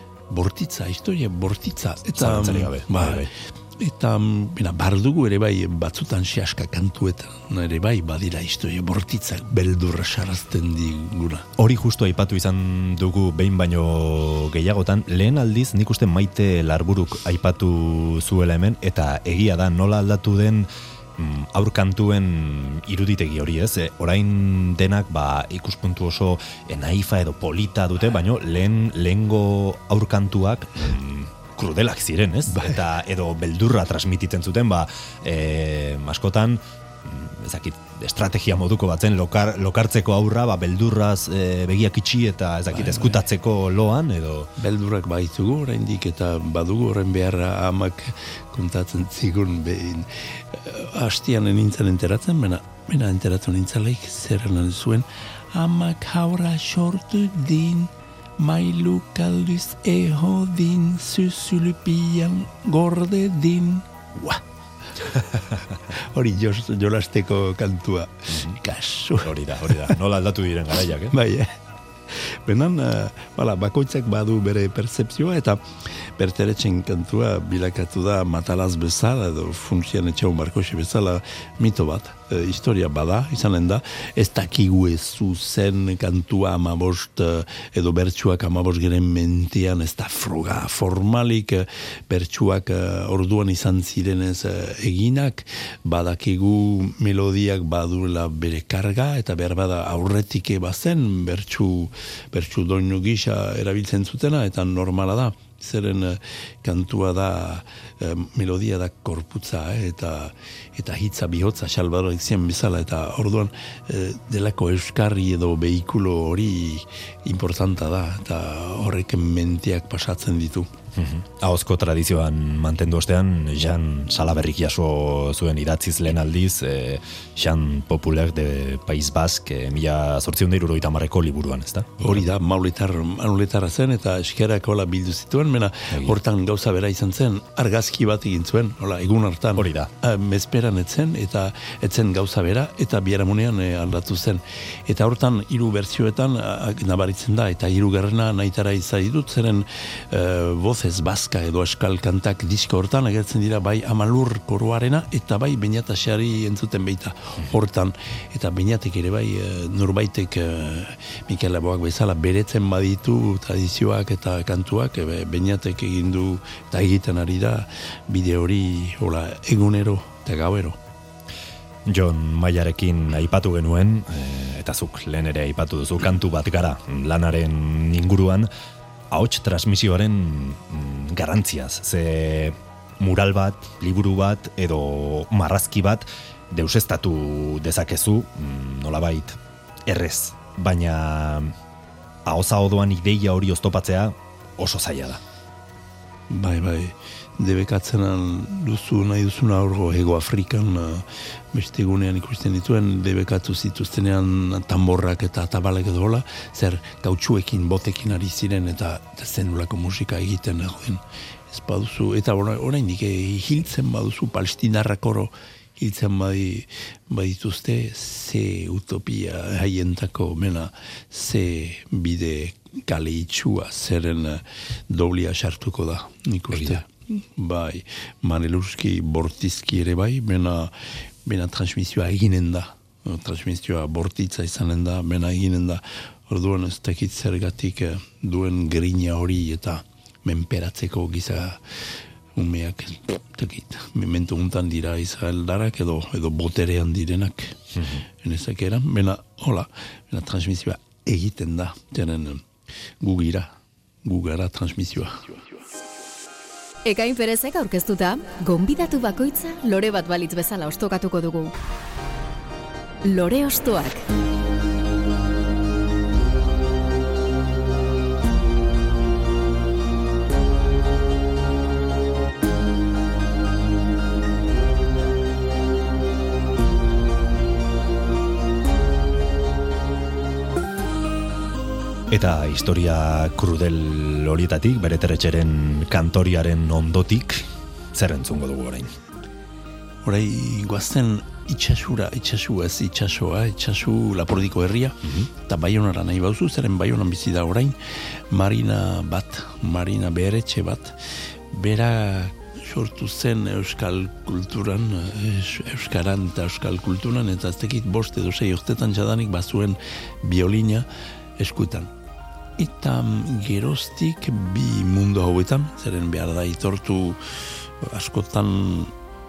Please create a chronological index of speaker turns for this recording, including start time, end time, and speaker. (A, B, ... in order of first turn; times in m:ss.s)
0:00.3-0:11.5 A
0:02.2-0:03.3 B
0:11.6-0:44.5 B
0:32.5-0:32.8 A
0:42.7-0:43.2 A
0:44.6-1:04.4 A
1:05.0-1:05.2 A
1:05.8-1:10.0 A
1:08.3-1:08.6 B
1:09.2-1:11.2 B
1:11.1-2:00.7 A
2:01.0-2:12.2 B
2:12.0-2:50.8 A
2:19.6-2:19.9 B
2:51.9-2:58.5 B
2:59.1-3:11.5 B
3:12.2-3:15.2 B
3:16.3-4:07.6 A
3:46.5-3:46.8 B
4:07.8-4:08.0 B
4:08.2-4:12.5 A
4:13.0-4:15.6 A
4:16.8-4:21.5 C
4:23.0-4:24.0 C
4:42.1-4:48.9 B
4:50.0-5:11.9 A
5:12.6-5:18.9 A